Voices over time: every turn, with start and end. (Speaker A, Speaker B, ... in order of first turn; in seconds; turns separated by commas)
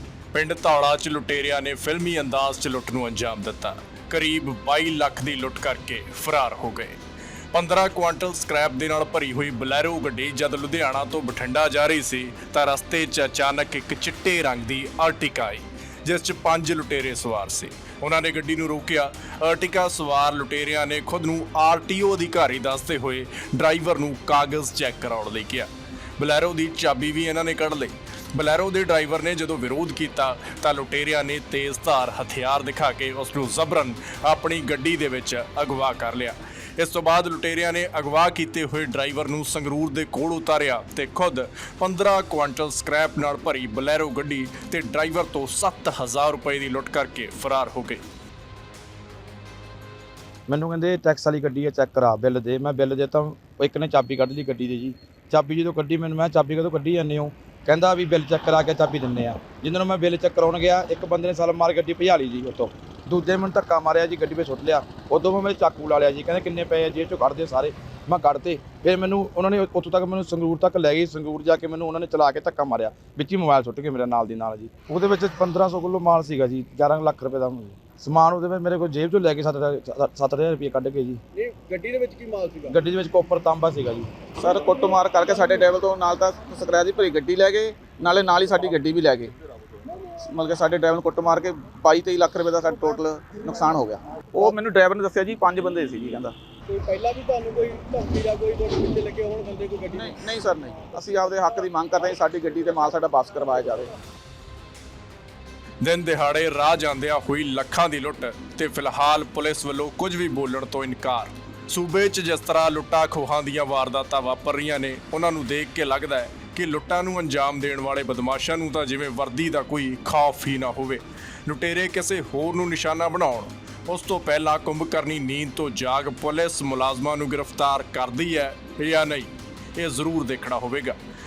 Speaker A: 0.3-7.0, Speaker A: 7.5-48.0, Speaker B: 50.5-81.2, Speaker C: 81.3-82.8, Speaker B: 82.7-84.1, Speaker D: 84.4-89.3, Speaker D: 90.2-96.3, Speaker C: 96.7-100.2, Speaker D: 99.9-103.9, Speaker A: 105.8-131.0